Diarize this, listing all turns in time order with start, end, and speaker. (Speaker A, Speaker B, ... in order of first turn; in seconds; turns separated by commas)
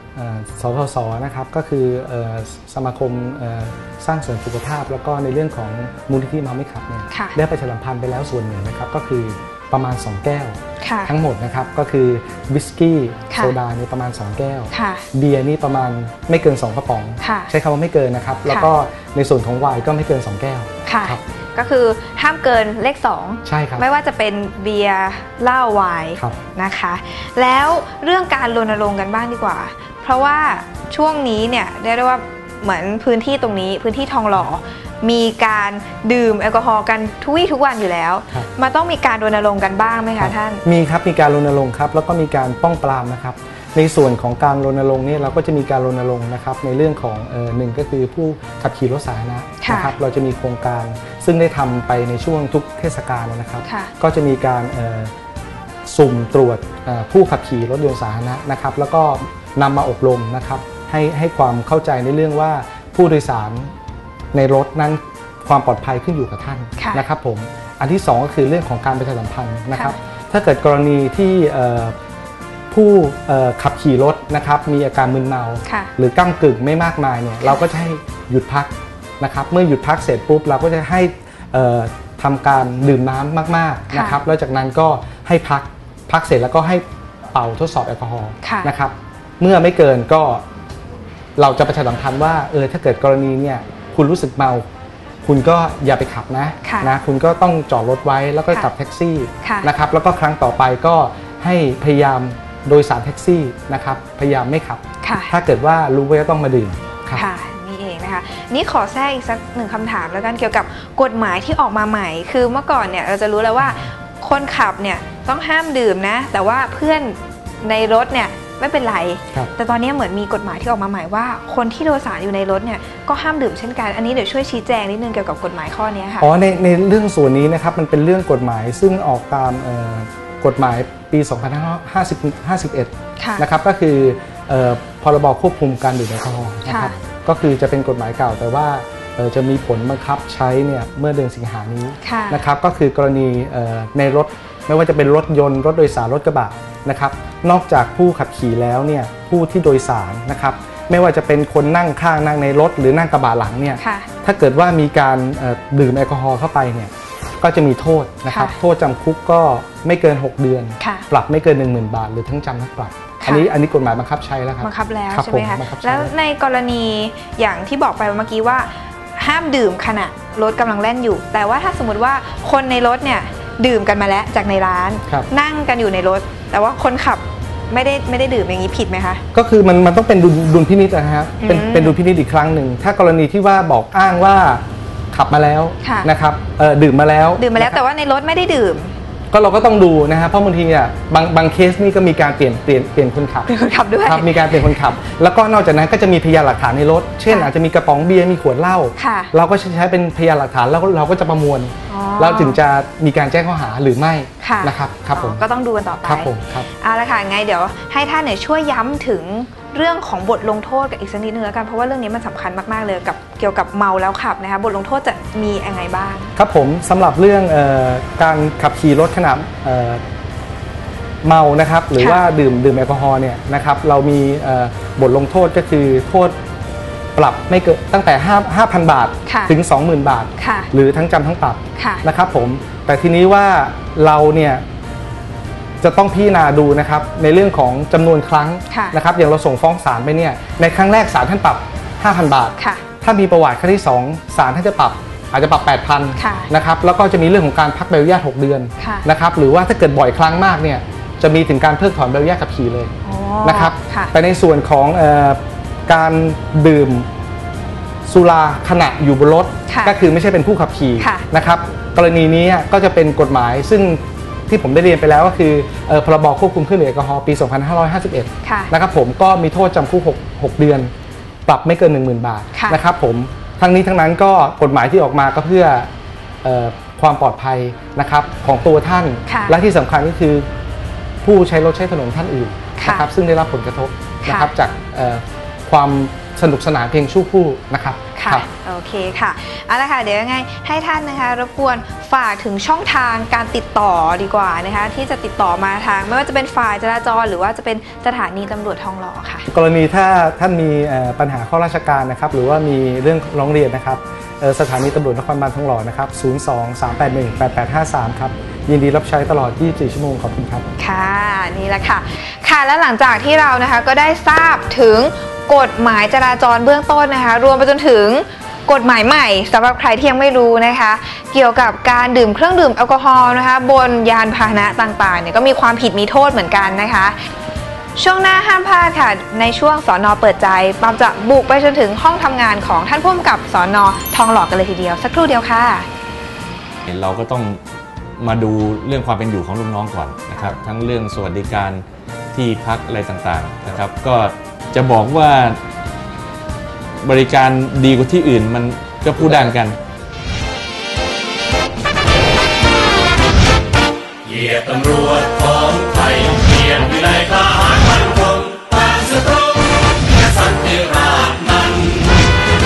Speaker A: 0.1-21.2, Speaker B: 7.1-7.4, Speaker B: 10.8-11.1, Speaker B: 13.3-13.6, Speaker B: 14.7-15.1, Speaker B: 17.2-17.5, Speaker B: 20.9-40.6, Speaker A: 23.4-23.9, Speaker A: 40.2-55.1, Speaker B: 49.6-50.0, Speaker B: 53.6-53.9, Speaker A: 55.9-63.7, Speaker A: 64.3-72.0, Speaker B: 66.8-67.0, Speaker A: 72.7-90.4, Speaker B: 75.7-75.9, Speaker B: 83.9-84.2, Speaker B: 88.4-88.7, Speaker A: 91.4-94.6, Speaker A: 95.2-107.3, Speaker B: 96.6-96.9, Speaker B: 99.4-99.7, Speaker B: 105.0-105.3, Speaker B: 107.1-126.3, Speaker A: 113.6-113.9, Speaker A: 126.2-166.1, Speaker B: 133.2-133.4, Speaker B: 136.7-136.9, Speaker B: 142.0-142.4, Speaker B: 153.8-154.1, Speaker B: 158.3-158.6, Speaker B: 160.8-161.1, Speaker B: 163.2-163.5, Speaker B: 164.6-179.2, Speaker A: 179.3-187.8, Speaker B: 181.4-182.0, Speaker B: 185.8-186.1, Speaker B: 187.4-188.9, Speaker A: 189.3-193.5, Speaker B: 193.5-194.8, Speaker A: 194.0-205.4, Speaker B: 199.0-199.3, Speaker B: 201.9-202.6, Speaker B: 204.4-216.3, Speaker A: 206.0-206.7, Speaker A: 216.4-220.0, Speaker A: 221.2-226.4, Speaker B: 222.0-222.2, Speaker A: 227.2-234.6, Speaker B: 229.3-229.6, Speaker B: 230.4-230.7, Speaker B: 231.8-232.1, Speaker A: 235.8-257.1, Speaker B: 238.7-239.0, Speaker B: 242.6-242.8, Speaker B: 246.2-246.5, Speaker B: 248.8-249.1, Speaker B: 253.0-254.1, Speaker A: 258.1-270.9, Speaker B: 259.7-260.0, Speaker B: 261.0-261.2, Speaker B: 268.4-268.7, Speaker A: 271.5-275.9, Speaker B: 272.5-272.8, Speaker A: 276.4-280.4, Speaker B: 279.3-279.6, Speaker A: 281.2-288.5, Speaker B: 282.8-283.1, Speaker B: 284.2-284.5, Speaker B: 288.1-299.5, Speaker A: 299.5-310.7, Speaker B: 310.8-327.1, Speaker B: 328.0-335.9, Speaker C: 336.9-337.6, Speaker C: 338.2-345.6, Speaker C: 347.0-349.8, Speaker D: 354.2-362.2